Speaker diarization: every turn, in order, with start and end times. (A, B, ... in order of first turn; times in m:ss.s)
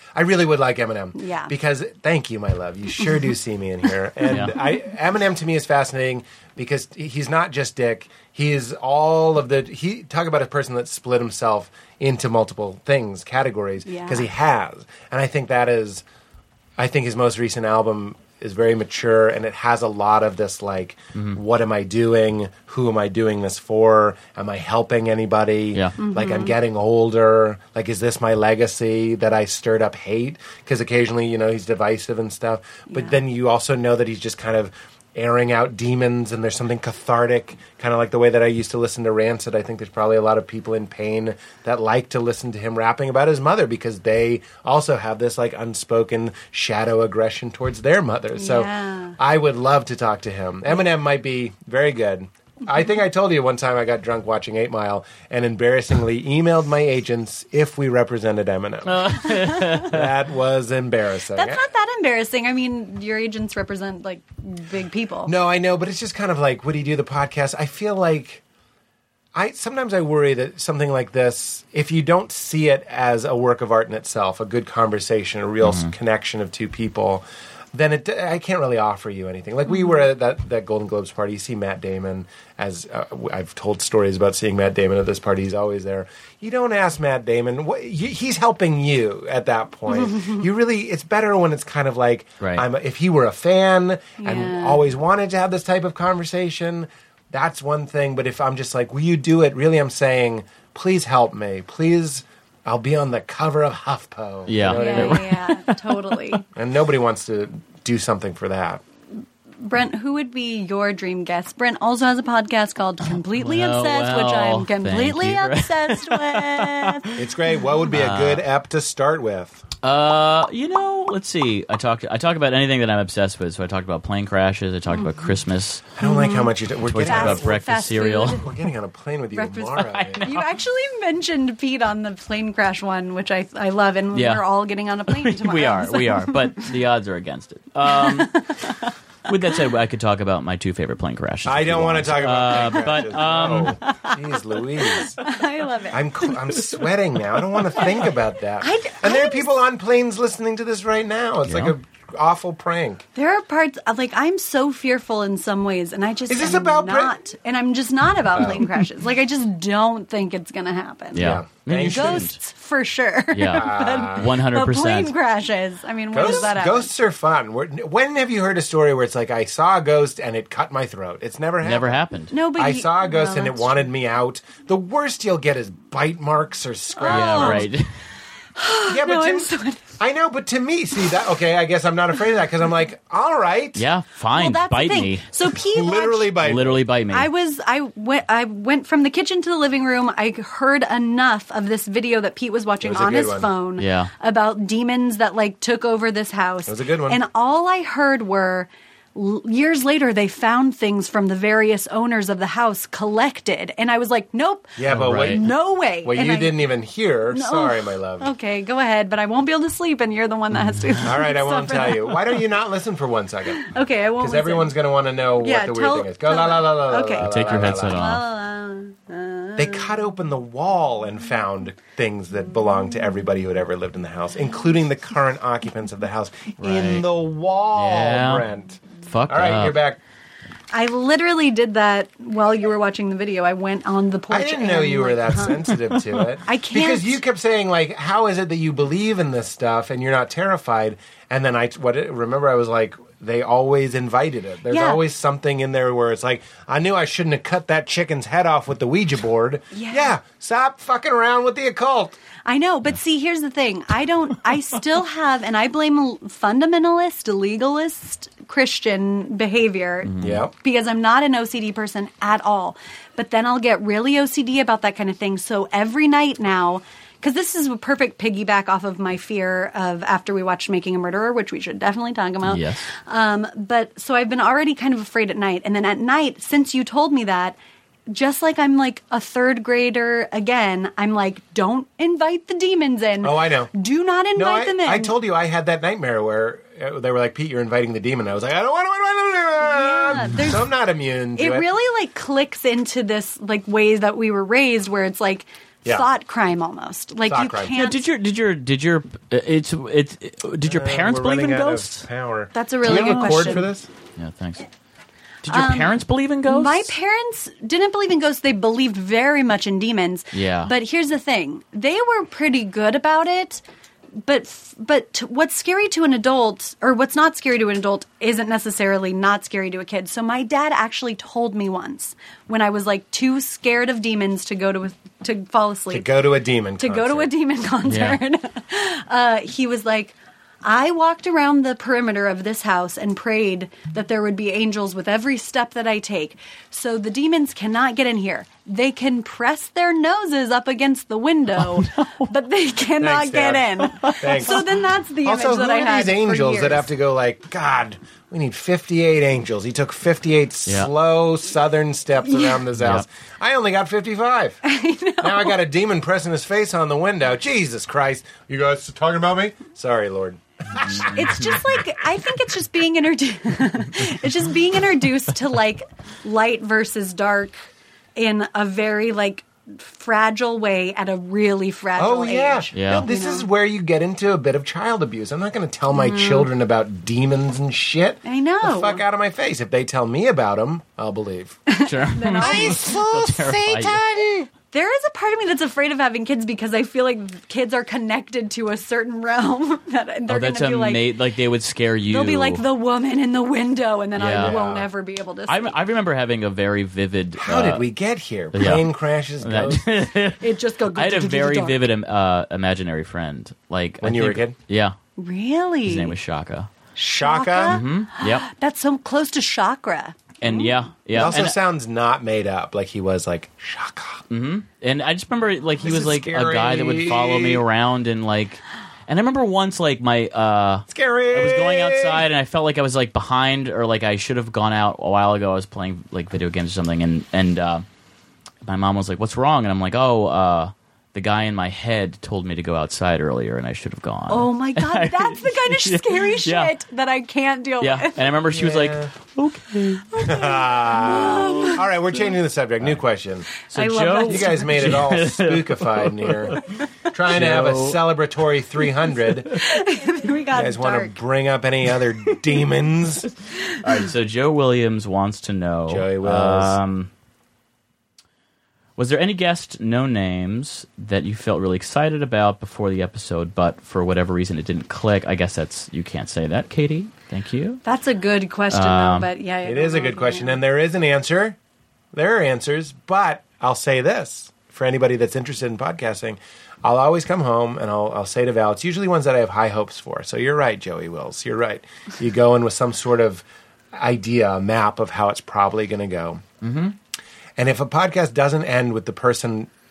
0:00.2-0:16.0 A
0:01.2-0:01.5 B
0:04.3-0:04.6 C
0:13.9-0:14.3 B
0:16.8-1:01.6 A
0:26.0-0:26.6 B
0:32.9-0:33.2 B
0:48.4-0:49.2 B
0:58.9-1:00.1 C
0:59.4-0:59.8 B
1:01.3-1:05.3 B
1:05.3-1:08.4 A
1:09.4-1:45.3 A
1:15.6-1:15.9 C
1:29.9-1:30.4 B
1:34.2-1:34.8 B
1:44.5-1:45.8 C
1:44.7-1:46.4 B
1:46.6-1:48.8 A
1:49.6-1:57.1 B
1:53.3-1:57.3 C
1:57.2-1:59.6 A
1:57.8-1:58.4 C
1:59.8-2:05.9 C
2:04.9-2:05.3 B
2:06.0-2:07.6 A
2:06.0-2:08.4 B
2:06.9-2:08.4 C
2:08.3-2:10.3 A
2:09.4-2:16.7 B
2:09.8-2:10.5 C
2:14.1-2:14.4 C
2:15.1-2:18.7 C
2:17.9-2:18.8 B
2:19.3-2:23.8 C
2:21.4-2:25.2 A
2:23.6-2:24.2 B
2:24.8-2:26.3 B
2:25.9-2:33.0 A
2:28.6-2:29.5 B
2:31.5-2:31.7 C
2:33.2-2:46.9 B
2:36.3-2:37.2 A
2:38.3-2:38.7 A
2:41.1-2:42.4 C
2:41.2-2:42.3 A
2:43.3-2:45.1 C
2:43.5-2:44.3 A
2:46.1-2:52.0 A
2:51.6-2:52.3 C
2:52.3-2:53.8 B
2:52.5-2:57.7 A
2:57.0-2:57.7 B
2:57.1-2:57.9 C
2:58.6-2:59.8 B
2:58.9-3:03.8 A
3:03.8-3:05.3 C
3:04.4-3:06.5 B
3:05.5-3:06.8 A
3:06.4-3:07.3 C
3:07.1-3:26.6 B
3:12.8-3:13.5 A
3:13.8-3:14.1 C
3:16.7-3:17.2 A
3:24.8-3:25.5 A
3:24.9-3:25.4 C
3:26.0-3:28.3 A
3:27.3-3:32.3 B
3:31.0-3:38.1 A
3:33.5-3:34.7 B
3:35.4-3:40.0 B
3:37.2-3:38.2 C
3:39.6-3:50.0 A
3:46.6-3:47.1 C
3:47.7-3:48.5 C
3:49.1-3:49.8 C
3:50.7-3:55.7 B
3:54.3-4:12.1 A
3:56.4-3:57.2 B
4:04.7-4:05.0 B
4:09.7-4:10.2 B
4:12.4-4:37.6 B
4:20.1-4:20.4 C
4:20.2-4:20.5 A
4:32.4-4:32.8 C
4:38.1-4:45.1 B
4:43.2-4:43.7 A
4:44.4-4:51.7 A
4:49.6-4:50.6 B
4:51.4-4:58.0 B
4:57.3-4:57.8 A
4:57.8-5:02.1 C
5:00.6-5:03.9 A
5:02.5-5:03.7 B
5:02.8-5:04.7 C
5:05.4-5:06.9 C
5:05.5-5:06.0 B
5:06.5-5:13.6 B
5:10.3-5:10.7 C
5:14.2-5:26.1 B
5:25.9-5:27.3 A
5:26.8-5:46.9 B
5:27.9-5:28.2 C
5:41.8-5:42.3 C
5:43.0-5:44.7 A
5:43.9-5:44.4 C
5:45.2-5:54.6 A
5:52.2-5:52.6 B
5:52.8-5:53.0 C
5:54.6-5:55.6 B
5:55.2-6:01.6 A
6:00.8-6:01.6 C
6:01.1-6:07.6 B
6:08.2-6:13.5 B
6:12.0-6:21.6 A
6:12.7-6:13.1 C
6:15.9-6:16.5 B
6:18.2-6:19.0 B
6:21.7-6:23.0 B
6:21.8-6:24.0 C
6:22.4-6:24.5 A
6:24.7-6:31.1 B
6:30.3-6:32.6 C
6:32.1-6:35.8 B
6:34.2-6:34.6 C
6:34.4-6:34.9 A
6:35.5-6:37.8 C
6:37.4-6:39.9 A
6:38.5-6:45.0 C
6:40.4-6:41.8 B
6:44.0-6:44.6 A
6:45.2-6:46.2 B
6:45.9-6:46.7 C
6:47.0-6:50.8 B
6:47.0-6:47.8 A
6:47.7-6:48.5 C
6:50.4-6:51.6 C
6:51.1-6:54.2 A
6:54.3-7:07.8 C
6:55.8-6:57.6 A
7:00.9-7:02.3 A
7:08.6-7:16.7 C
7:14.3-7:18.3 B
7:17.8-7:20.3 C
7:18.5-7:19.1 A
7:20.1-7:21.8 B
7:20.2-7:23.5 A
7:21.2-7:21.7 C
7:23.7-7:28.1 C
7:23.7-7:25.0 B
7:24.2-7:29.5 A
7:29.5-7:31.2 B
7:30.5-7:33.3 A
7:33.8-7:37.1 C
7:35.9-7:36.8 A
7:39.0-7:47.8 C
7:47.8-7:50.6 B
7:48.7-7:49.3 C
7:49.6-7:51.6 A
7:52.1-8:06.4 A
8:06.6-8:06.9 C
8:07.6-8:09.7 A